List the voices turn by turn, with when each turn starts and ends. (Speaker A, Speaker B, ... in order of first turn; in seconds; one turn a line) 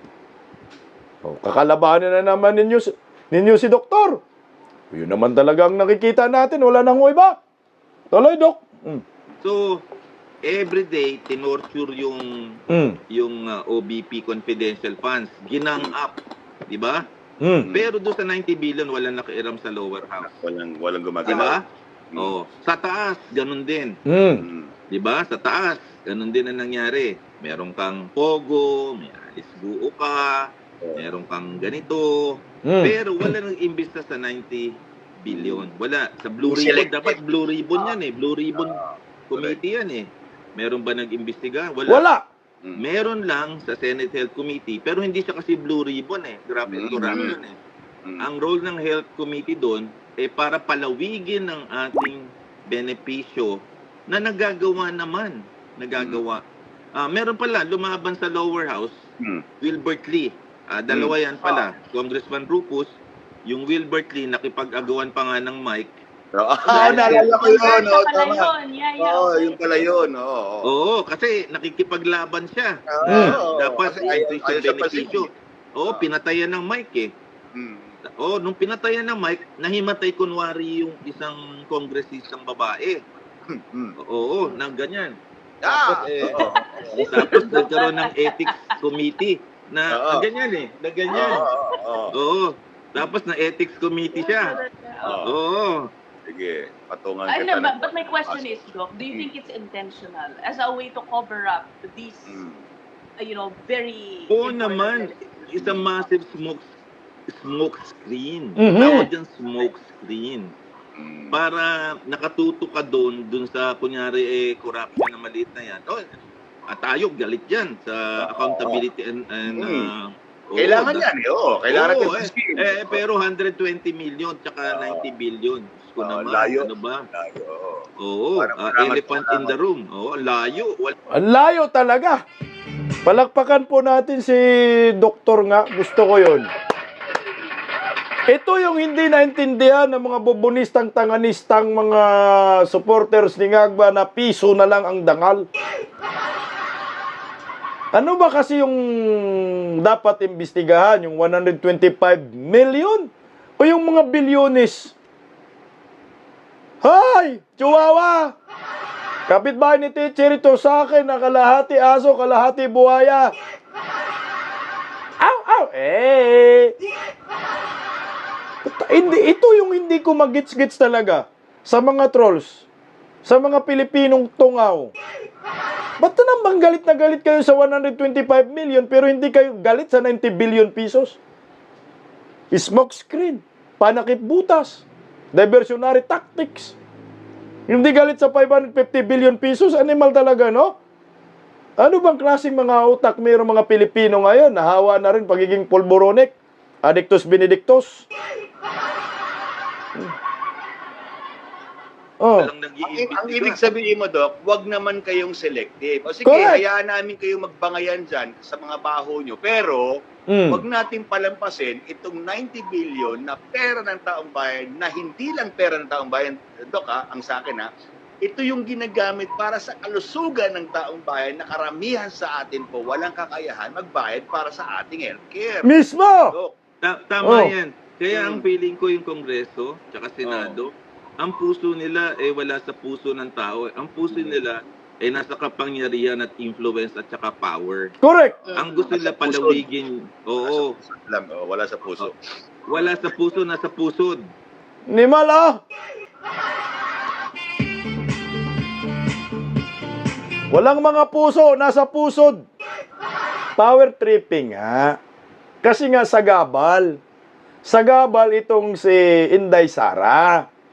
Speaker A: 1.2-4.2
Speaker A: 4.9-7.4
Speaker A: 8.1-9.0
Speaker B: 9.4-9.8
Speaker B: 10.4-12.2
Speaker A: 12.7-13.0
Speaker B: 13.1-16.2
Speaker B: 16.7-17.1
Speaker A: 17.4-17.7
Speaker B: 17.7-20.3
Speaker C: 20.2-21.6
Speaker B: 21.2-21.6
Speaker B: 22.1-24.0
Speaker A: 24.1-24.4
Speaker C: 24.4-24.7
Speaker B: 24.9-38.8
Speaker A: 32.6-33.0
Speaker C: 35.3-35.7
Speaker C: 36.4-37.2
Speaker C: 38.5-39.6
Speaker B: 39.3-42.0
Speaker A: 41.9-42.2
Speaker B: 42.8-47.6
Speaker C: 46.7-47.4
Speaker B: 48.2-56.4
Speaker C: 55.9-56.2
Speaker B: 57.0-59.0
Speaker B: 59.6-66.0
Speaker C: 60.9-61.6
Speaker C: 66.3-70.7
Speaker D: 66.7-69.9
Speaker B: 66.7-67.8
Speaker B: 70.6-77.1
Speaker C: 72.9-75.3
Speaker A: 73.1-73.4
Speaker C: 77.5-78.0
Speaker B: 78.0-83.0
Speaker C: 83.5-83.9
Speaker B: 84.0-91.5
Speaker C: 85.6-87.8
Speaker D: 86.3-88.5
Speaker C: 89.9-90.2
Speaker C: 91.1-92.1
Speaker D: 91.1-91.4
Speaker B: 92.1-94.6
Speaker D: 94.1-95.2
Speaker C: 95.0-95.3
Speaker B: 95.2-95.9
Speaker C: 96.2-99.3
Speaker D: 97.3-102.4
Speaker C: 102.3-102.6
Speaker D: 103.2-105.1
Speaker B: 104.3-106.7
Speaker C: 105.5-105.8
Speaker B: 107.3-110.5
Speaker A: 108.6-109.0
Speaker C: 111.0-111.4
Speaker B: 111.3-121.1
Speaker C: 118.2-118.8
Speaker C: 119.5-119.9
Speaker C: 120.6-123.0
Speaker B: 121.7-127.0
Speaker C: 124.7-125.1
Speaker C: 126.0-127.8
Speaker B: 128.0-130.9
Speaker C: 128.4-129.5
Speaker A: 131.1-132.2
Speaker A: 133.0-136.5
Speaker A: 138.3-145.5
Speaker A: 147.9-154.9
Speaker A: 156.8-158.3
Speaker A: 159.3-163.3
Speaker A: 165.2-166.7
Speaker A: 168.6-172.7
Speaker A: 173.2-174.9
Speaker A: 176.0-181.2
Speaker A: 182.5-186.8
Speaker A: 187.7-190.7
Speaker A: 191.8-198.1
Speaker A: 202.2-202.5
Speaker B: 202.4-203.6
Speaker C: 202.8-209.9
Speaker A: 206.2-206.6
Speaker A: 210.3-210.6
Speaker C: 210.5-217.7
Speaker C: 218.2-225.8
Speaker A: 225.6-226.3
Speaker C: 226.3-226.6
Speaker B: 226.8-237.9
Speaker A: 227.2-227.5
Speaker C: 228.1-228.4
Speaker C: 230.2-230.6
Speaker C: 234.1-234.4
Speaker A: 238.0-238.4
Speaker D: 238.4-238.9
Speaker C: 238.5-239.7
Speaker B: 238.5-240.7
Speaker C: 240.4-242.1
Speaker B: 242.7-244.2
Speaker C: 242.7-243.0
Speaker A: 244.9-245.6
Speaker A: 250.5-252.4
Speaker A: 253.6-255.0
Speaker A: 255.6-257.0
Speaker A: 257.6-260.4